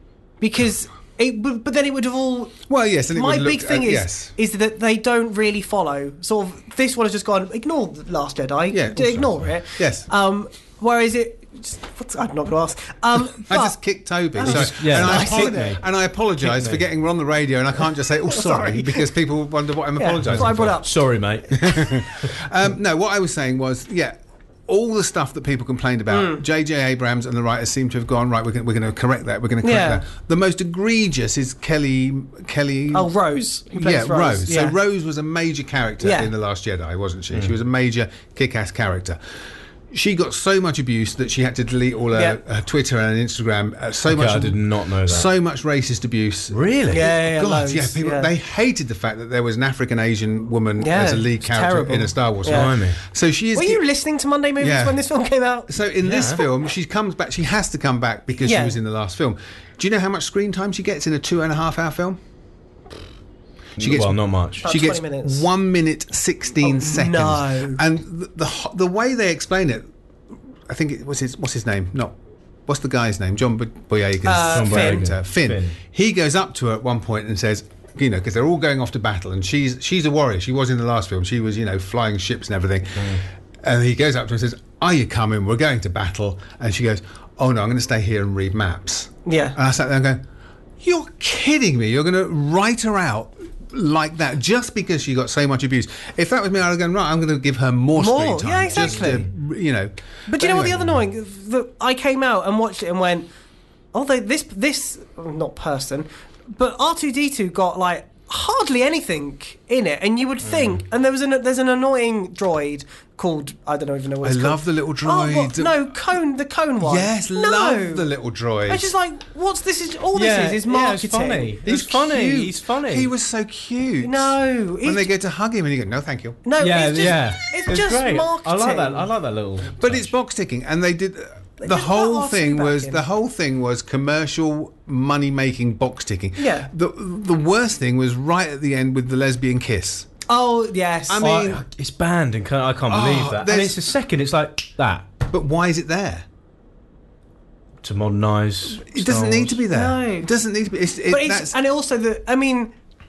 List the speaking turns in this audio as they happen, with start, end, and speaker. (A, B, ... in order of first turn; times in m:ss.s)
0:00.4-0:02.6 A
0:02.7-0:04.3 B
0:03.1-0:13.8 A
0:08.7-0:10.1 B
0:13.5-0:20.8 B
0:14.4-0:15.7 A
0:14.4-0:15.8 C
0:16.4-0:16.8 C
0:18.3-0:19.1 A
0:20.0-0:21.0 A
0:20.3-0:22.1 C
0:21.5-0:33.1 B
0:26.1-0:26.4 A
0:29.6-0:30.0 A
0:32.9-0:34.8 A
0:33.7-0:39.2 B
0:36.0-0:36.3 A
0:39.9-0:53.8 B
0:44.1-0:45.3 C
0:46.5-0:47.0 C
0:46.9-0:48.3 A
0:50.8-0:52.7 A
0:52.5-0:53.0 C
0:53.6-0:55.7 A
0:54.6-0:55.0 B
0:55.7-1:02.2 B
0:56.0-0:56.4 C
0:58.4-0:58.8 A
1:03.8-1:04.6 C
1:03.8-1:09.9 B
1:04.6-1:05.5 A
1:06.6-1:07.8 A
1:10.7-1:12.2 B
1:12.7-1:30.2 B
1:14.2-1:15.1 A
1:14.5-1:15.8 C
1:29.3-1:29.6 A
1:30.8-1:41.0 B
1:38.0-1:39.2 A
1:38.8-1:39.2 C
1:40.3-1:43.3 A
1:43.9-1:58.1 A
1:50.5-1:50.8 C
1:54.2-1:55.9 B
1:56.8-1:58.9 B
1:58.7-2:01.6 A
2:00.1-2:03.1 C
2:01.6-2:06.4 B
2:04.0-2:05.1 A
2:06.4-2:09.1 A
2:06.6-2:10.1 C
2:09.8-2:20.1 B
2:11.6-2:13.0 A
2:16.4-2:16.7 A
2:20.3-2:21.3 A
2:21.1-2:21.6 B
2:21.2-2:25.1 C
2:22.9-2:23.8 B
2:25.3-2:26.3 B
2:27.8-2:29.6 C
2:28.8-2:31.6 B
2:29.7-2:30.3 A
2:31.1-2:32.7 A